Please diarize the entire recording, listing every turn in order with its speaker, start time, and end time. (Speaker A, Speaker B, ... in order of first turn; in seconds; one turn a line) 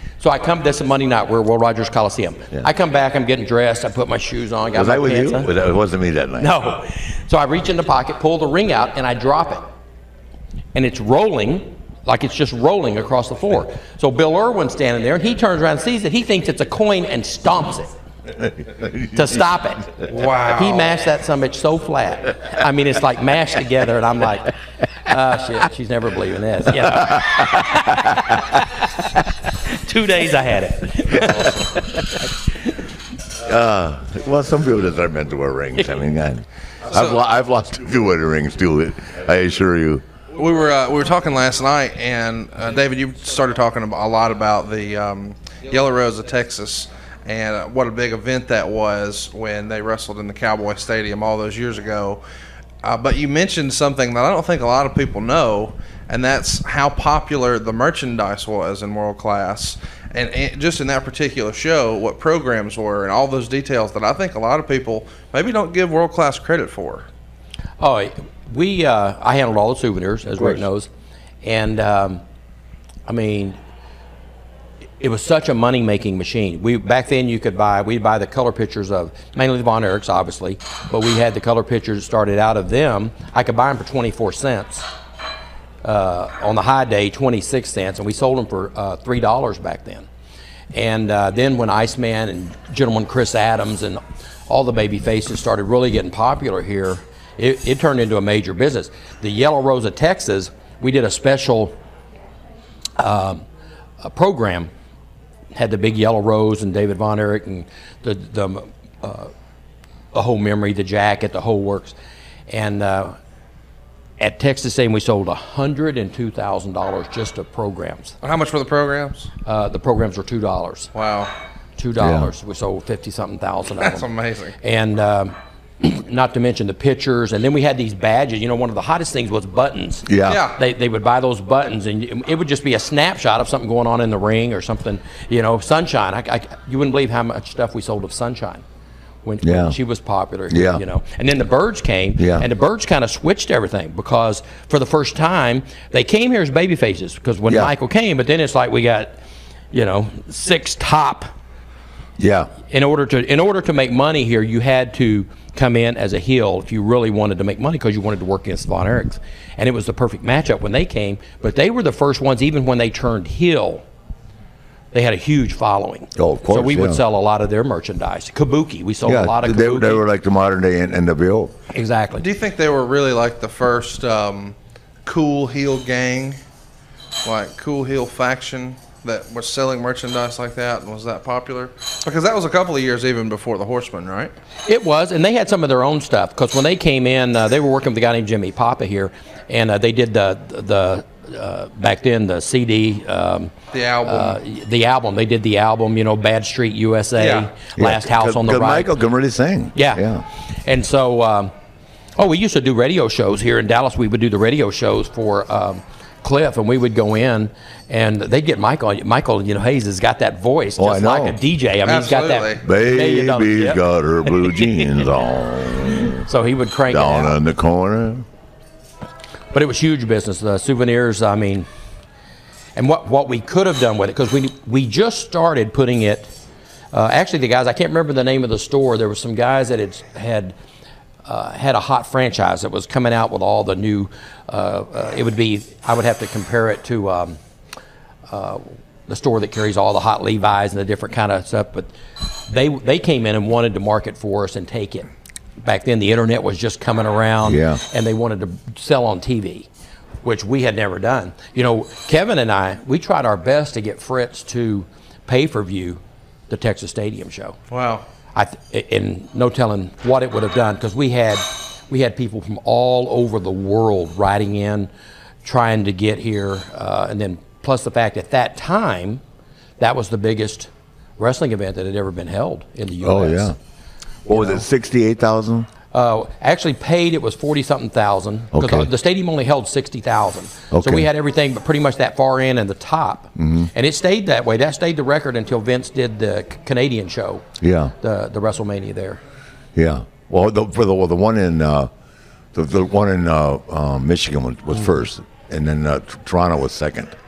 Speaker A: 0.2-5.5
Speaker B: 4.7-6.5
Speaker A: 6.4-9.7
Speaker A: 10.7-17.9
Speaker B: 18.3-20.1
Speaker A: 19.1-19.9
Speaker C: 20.1-20.9
Speaker A: 20.5-28.9
Speaker B: 26.8-28.4
Speaker A: 29.6-32.2
Speaker B: 31.1-31.5
Speaker B: 33.3-40.0
Speaker C: 40.3-52.2
Speaker C: 52.8-67.1
Speaker A: 67.8-70.9
Speaker A: 71.4-72.2
Speaker A: 73.0-73.6
Speaker A: 75.0-84.9
Speaker A: 85.8-90.1
Speaker A: 90.7-101.7
Speaker A: 103.0-103.4
Speaker A: 104.0-104.7
Speaker A: 105.5-109.3
Speaker A: 110.1-112.0
Speaker A: 112.5-113.2
Speaker A: 114.2-118.2
Speaker C: 118.2-119.3
Speaker A: 119.5-120.9
Speaker C: 120.9-121.3
Speaker A: 121.8-124.0
Speaker B: 122.0-122.3
Speaker C: 123.8-124.5
Speaker A: 124.6-138.6
Speaker B: 130.1-130.4
Speaker C: 130.3-130.6
Speaker A: 139.2-149.2
Speaker B: 139.4-139.8
Speaker B: 140.5-140.8
Speaker B: 142.2-142.5
Speaker B: 147.5-147.7
Speaker A: 149.7-151.3
Speaker B: 152.2-152.5
Speaker A: 152.7-163.8
Speaker A: 164.9-170.0
Speaker B: 166.2-167.0
Speaker B: 169.0-171.5
Speaker A: 171.7-172.2
Speaker C: 172.2-176.4
Speaker C: 177.2-184.3
Speaker A: 184.7-193.5
Speaker C: 193.7-194.4
Speaker A: 194.1-198.9
Speaker C: 197.2-197.5
Speaker B: 197.8-200.2
Speaker A: 199.7-200.0
Speaker A: 200.6-201.5
Speaker A: 202.2-213.8
Speaker B: 210.8-211.4
Speaker C: 211.8-212.6
Speaker B: 212.6-216.3
Speaker A: 216.2-217.4
Speaker B: 216.9-218.2
Speaker A: 219.5-221.7
Speaker A: 222.8-226.3
Speaker A: 226.9-230.5
Speaker A: 231.2-237.4
Speaker A: 238.3-245.1
Speaker A: 245.6-249.7
Speaker B: 247.4-247.8
Speaker A: 250.2-257.6
Speaker C: 257.7-258.0
Speaker A: 258.3-264.9
Speaker A: 265.4-269.2
Speaker A: 269.8-273.5
Speaker B: 273.0-273.6
Speaker A: 274.3-274.6
Speaker B: 274.3-275.7
Speaker A: 275.9-287.4
Speaker B: 278.5-278.9
Speaker B: 280.7-281.1
Speaker B: 283.4-283.7
Speaker B: 287.6-287.9
Speaker A: 288.0-289.2
Speaker B: 289.8-291.9
Speaker B: 292.5-297.1